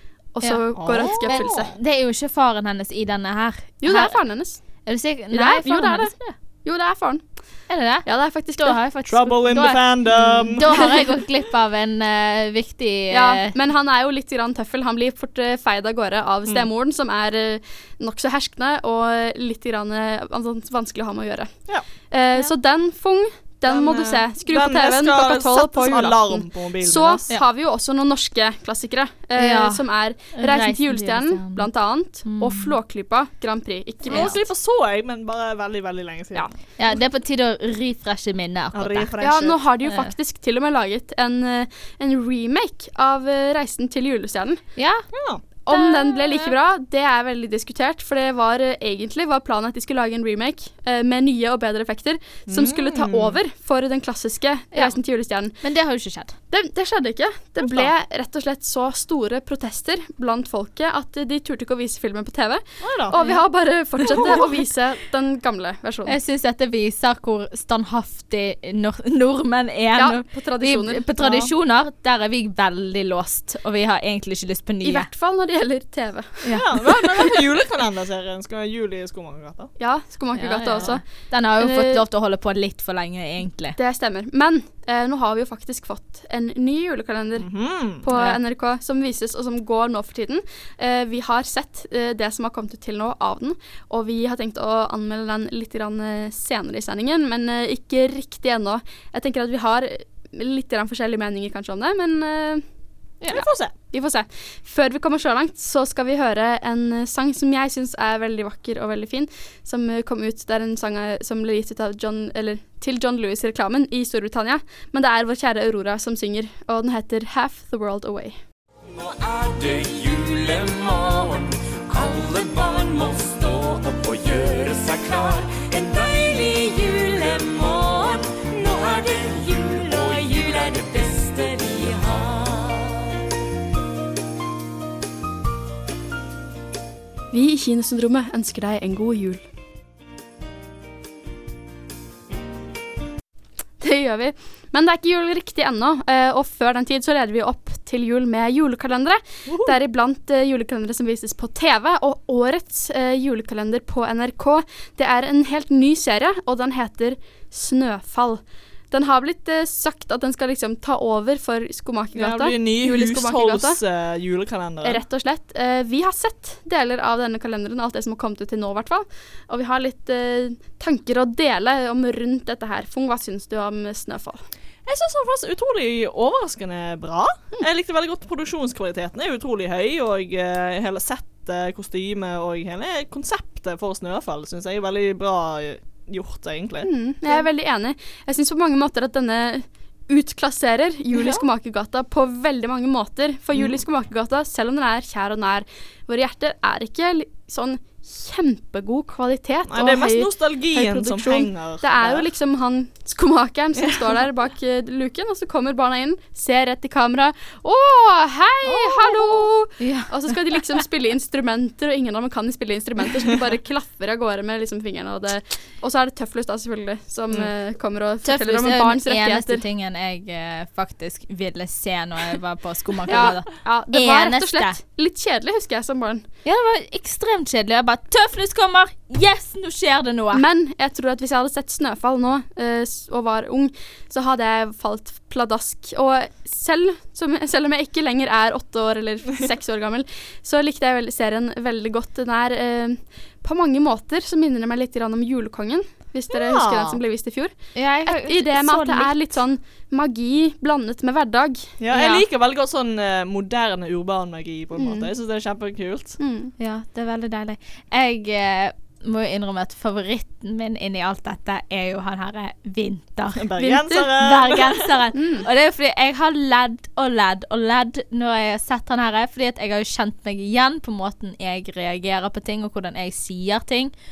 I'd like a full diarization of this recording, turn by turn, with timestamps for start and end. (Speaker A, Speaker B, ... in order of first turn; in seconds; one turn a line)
Speaker A: 0.3-1.7
Speaker B: 0.4-6.3
Speaker C: 0.8-1.7
Speaker A: 3.8-4.7
Speaker A: 5.3-7.3
Speaker B: 7.7-13.5
Speaker A: 8.0-8.8
Speaker C: 9.1-10.6
Speaker A: 13.1-34.5
Speaker C: 23.7-27.2
Speaker B: 29.4-31.7
Speaker B: 32.2-32.8
Speaker C: 34.1-36.5
Speaker B: 34.1-34.4
Speaker B: 36.8-39.1
Speaker C: 38.7-39.6
Speaker A: 39.2-44.6
Speaker B: 39.8-40.1
Speaker B: 44.8-45.1
Speaker C: 45.1-45.4
Speaker A: 45.7-55.6
Speaker B: 45.7-46.5
Speaker C: 52.5-53.4
Speaker B: 55.6-56.3
Speaker A: 56.5-66.2
Speaker C: 57.6-57.9
Speaker C: 62.8-63.2
Speaker C: 64.1-64.4
Speaker B: 66.1-75.1
Speaker A: 70.0-71.0
Speaker C: 71.2-71.5
Speaker A: 74.8-76.9
Speaker C: 76.6-79.7
Speaker A: 79.8-81.0
Speaker B: 80.3-83.8
Speaker A: 81.6-82.0
Speaker A: 83.8-102.6
Speaker C: 87.4-88.0
Speaker C: 103.3-103.7
Speaker A: 103.8-118.4
Speaker D: 118.9-133.2
Speaker A: 137.3-139.4
Speaker A: 143.8-163.8
Speaker C: 149.5-149.8
Speaker C: 162.2-165.0
Speaker A: 164.8-174.4
Speaker C: 174.8-187.5
Speaker A: 186.8-219.6
Speaker C: 191.2-191.4
Speaker C: 199.7-202.3
Speaker C: 208.7-209.5
Speaker B: 209.8-210.1
Speaker B: 218.2-224.8
Speaker A: 223.1-226.2
Speaker B: 226.4-230.4
Speaker A: 230.3-252.2
Speaker C: 246.3-247.0
Speaker B: 247.8-249.3
Speaker C: 251.8-256.2
Speaker A: 254.8-255.1
Speaker A: 256.2-256.5
Speaker B: 256.6-263.4
Speaker C: 263.4-264.8
Speaker A: 263.6-264.1
Speaker B: 264.2-273.9
Speaker A: 265.1-265.4